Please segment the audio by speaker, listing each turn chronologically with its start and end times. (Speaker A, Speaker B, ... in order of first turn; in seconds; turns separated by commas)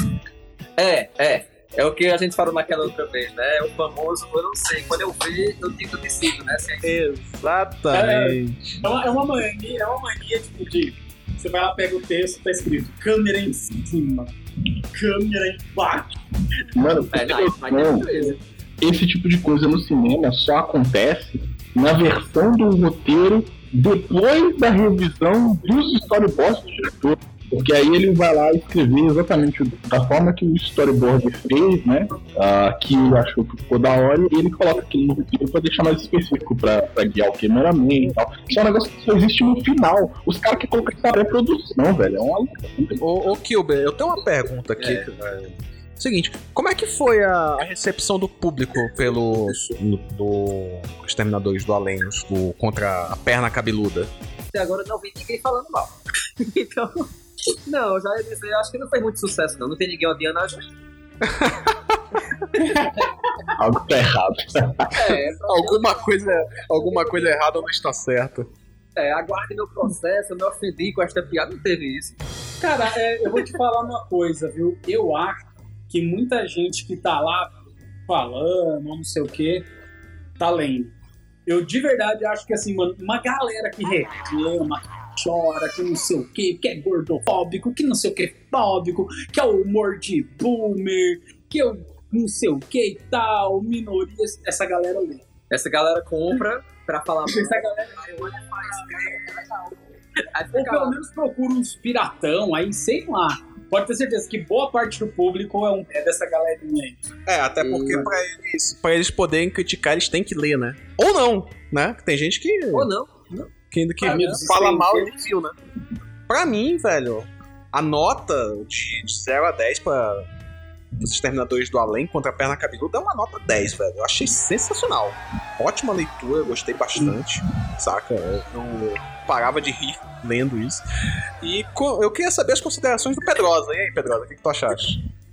Speaker A: 0.8-6.9, Speaker B: 6.8-8.8, Speaker C: 7.9-14.3, Speaker C: 14.9-16.1, Speaker D: 16.7-43.0, Speaker A: 17.1-18.4, Speaker B: 43.0-54.1, Speaker A: 44.8-45.1, Speaker A: 54.5-57.1, Speaker A: 57.6-60.7, Speaker B: 61.2-62.0, Speaker C: 62.5-63.1, Speaker D: 63.6-65.2, Speaker A: 64.9-67.4, Speaker B: 65.5-68.5, Speaker A: 69.0-72.2, Speaker C: 72.6-77.5, Speaker C: 78.1-79.7, Speaker C: 80.4-80.9, Speaker C: 81.5-95.2, Speaker A: 95.5-99.8, Speaker C: 97.3-99.2, Speaker A: 100.3-101.0, Speaker C: 100.5-107.0, Speaker B: 107.2-112.9, Speaker A: 107.6-108.2, Speaker A: 112.7-113.5, Speaker B: 113.7-115.5, Speaker A: 114.0-115.1, Speaker C: 114.0-114.5, Speaker B: 116.3-120.2, Speaker B: 121.0-130.8, Speaker B: 131.4-135.0